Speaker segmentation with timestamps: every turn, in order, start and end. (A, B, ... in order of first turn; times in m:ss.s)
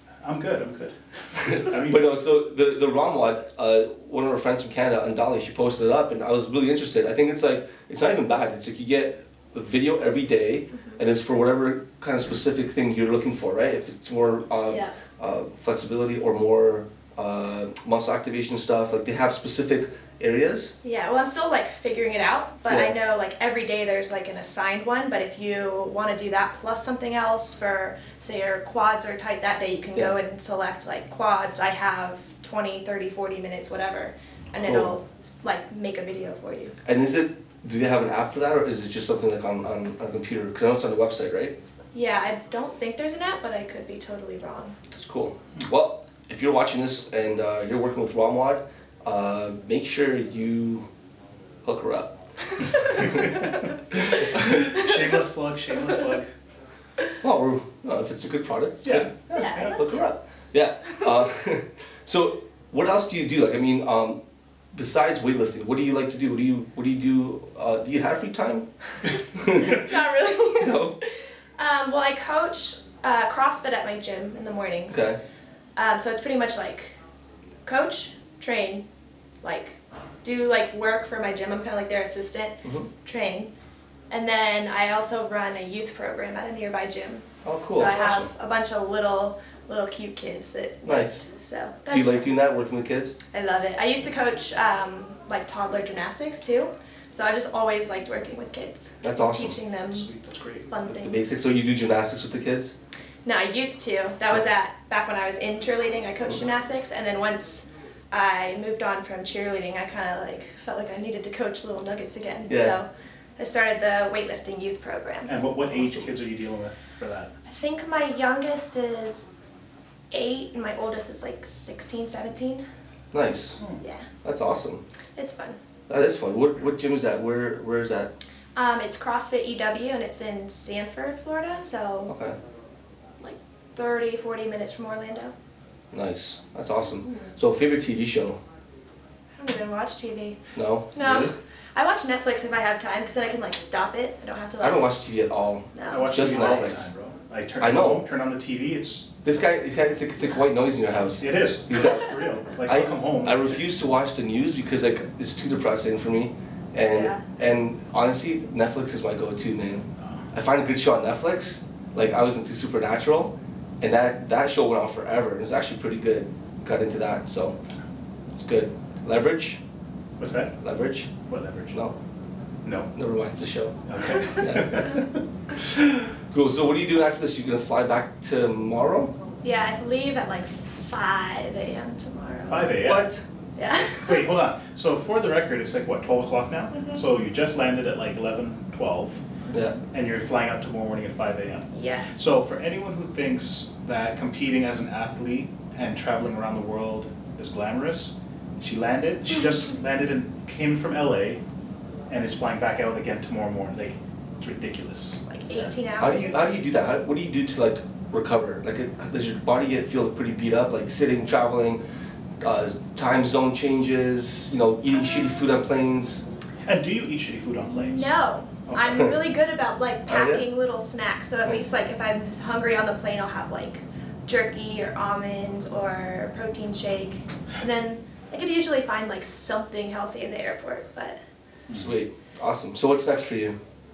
0:00.2-0:02.0 A
0:01.5-0:20.7 B
0:14.7-0:15.0 C
0:20.8-0:36.7 C
0:34.6-0:34.9 B
0:36.8-0:41.5 B
0:41.9-0:44.7 C
0:44.9-0:50.9 B
0:51.6-0:52.1 B
0:53.0-0:53.5 A
0:54.3-0:56.3 A
0:57.2-0:59.1 B
0:58.8-0:59.7 A
0:59.3-1:00.1 C
0:59.7-1:04.2 B
1:04.7-1:08.6 B
1:09.6-1:15.1 C
1:10.6-1:11.0 B
1:14.9-1:15.2 B
1:15.8-1:17.0 C
1:17.6-1:18.8 C
1:19.4-1:23.5 C
1:24.1-1:32.4 C
1:27.4-1:28.0 B
1:30.8-1:31.2 B
1:31.9-1:33.1 B
1:33.3-1:40.1 C
1:39.0-1:39.6 B
1:39.9-1:40.7 A
1:40.6-1:41.3 C
1:40.8-1:42.7 B
1:43.2-1:55.3 C
1:52.5-1:52.7 B
1:55.2-1:57.3 A
1:57.4-1:59.3 C
2:00.1-2:02.6 C
2:03.1-2:03.6 B
2:03.8-2:04.1 C
2:04.2-2:04.8 B
2:05.2-2:05.6 C
2:05.9-2:08.1 B
2:08.5-2:12.1 C
2:12.1-2:12.4 B
2:13.2-2:15.3 C
2:15.9-2:18.4 B
2:17.0-2:17.3 C
2:19.4-2:20.4 C
2:20.5-2:21.1 B
2:20.9-2:24.9 C
2:24.6-2:26.9 B
2:25.7-2:26.8 C
2:25.9-2:29.1 A
2:27.6-2:28.0 B
2:29.2-2:32.0 B
2:31.2-2:33.5 A
2:32.6-2:47.6 B
2:36.9-2:37.2 C
2:40.0-2:40.2 A
2:48.4-2:49.6 B
2:50.2-2:50.5 A
2:50.6-2:51.1 B
2:51.2-2:51.8 A
2:52.6-2:52.9 A
2:52.9-2:54.7 B
2:53.8-2:55.1 A
2:56.3-2:59.1 B
2:59.4-3:02.7 C
3:02.5-3:03.1 A
3:02.8-3:03.2 B
3:03.6-3:04.3 C
3:04.0-3:09.2 A
3:06.7-3:07.0 C
3:09.5-3:09.8 B
3:09.8-3:21.4 A
3:11.7-3:12.6 C
3:22.1-3:25.2 A
3:25.2-3:26.6 C
3:25.6-3:31.8 B
3:32.4-3:36.2 B
3:36.6-3:38.2 A
3:37.7-3:51.2 C
3:40.1-3:40.4 B
3:51.8-3:53.6 B